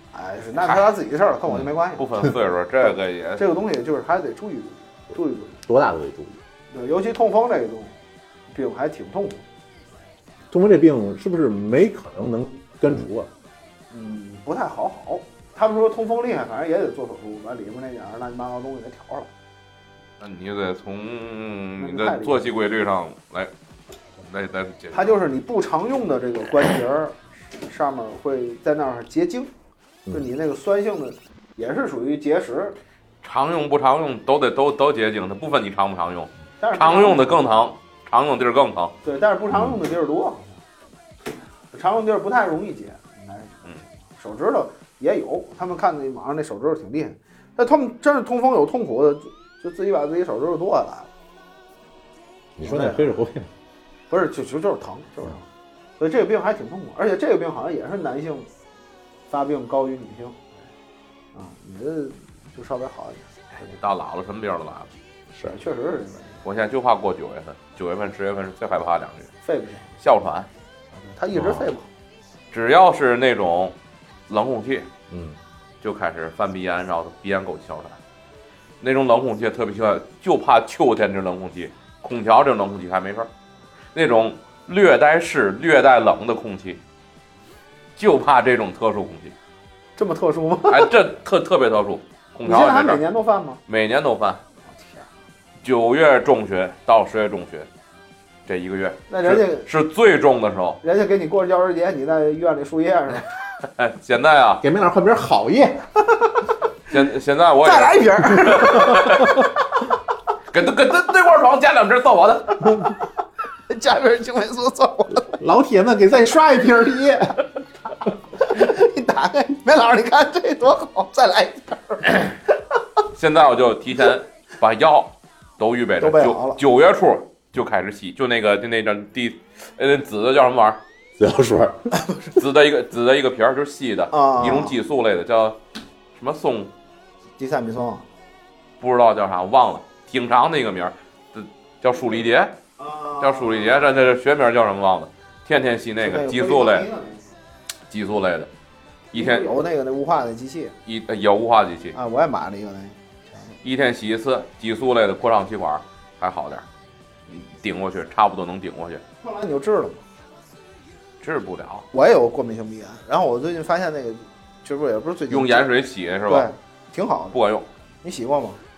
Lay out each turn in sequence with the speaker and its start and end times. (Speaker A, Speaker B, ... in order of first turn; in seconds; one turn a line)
Speaker A: 0.1-2.1
Speaker B: 2.0-3.5
Speaker A: 3.4-5.6
Speaker C: 5.7-6.4
Speaker A: 6.7-7.9
Speaker A: 8.5-9.4
Speaker C: 10.5-13.3
Speaker A: 13.9-19.3
Speaker B: 20.2-23.5
Speaker A: 21.8-22.5
Speaker B: 24.2-25.2
Speaker A: 24.9-29.5
Speaker A: 30.1-32.8
Speaker B: 33.2-38.9
Speaker A: 36.6-37.6
Speaker A: 39.0-40.6
Speaker C: 39.5-39.8
Speaker A: 41.7-43.6
Speaker A: 44.2-51.1
Speaker C: 52.6-53.5
Speaker A: 52.6-53.1
Speaker A: 54.1-55.5
Speaker A: 56.0-58.5
Speaker A: 59.3-60.4
Speaker A: 61.4-63.2
Speaker B: 63.5-64.9
Speaker A: 65.5-66.4
Speaker B: 66.4-69.3
Speaker A: 69.4-69.9
Speaker B: 70.0-70.5
Speaker A: 71.0-71.9
Speaker C: 71.3-71.7
Speaker B: 72.5-73.8
Speaker B: 74.3-74.9
Speaker C: 75.1-75.4
Speaker B: 75.8-78.0
Speaker B: 78.8-83.3
Speaker B: 84.0-86.8
Speaker B: 88.0-89.3
Speaker A: 90.0-90.9
Speaker B: 90.7-93.0
Speaker A: 92.5-93.6
Speaker B: 93.7-94.4
Speaker A: 94.8-95.0
Speaker B: 95.6-97.7
Speaker B: 98.5-100.8
Speaker A: 99.1-99.7
Speaker A: 100.8-103.3
Speaker B: 103.7-104.6
Speaker C: 104.6-105.9
Speaker B: 106.9-109.4
Speaker A: 107.6-109.5
Speaker B: 110.5-112.8
Speaker A: 113.7-115.3
Speaker C: 115.3-117.4
Speaker A: 118.4-122.4
Speaker B: 123.1-130.8
Speaker A: 126.0-126.6
Speaker C: 131.2-131.9
Speaker B: 132.4-135.6
Speaker A: 134.1-134.8
Speaker B: 136.2-136.7
Speaker A: 137.4-138.0
Speaker B: 138.8-142.6
Speaker A: 142.8-144.0
Speaker B: 143.2-146.9
Speaker A: 146.0-147.3
Speaker B: 147.9-148.5
Speaker B: 149.1-149.5
Speaker A: 149.1-150.7
Speaker B: 150.9-152.0
Speaker A: 151.9-153.0
Speaker B: 153.6-156.7
Speaker B: 157.3-159.0
Speaker A: 159.2-160.0
Speaker B: 161.2-161.9
Speaker A: 161.9-165.7
Speaker B: 165.3-166.5
Speaker A: 166.3-167.4
Speaker B: 167.3-167.7
Speaker A: 168.0-168.6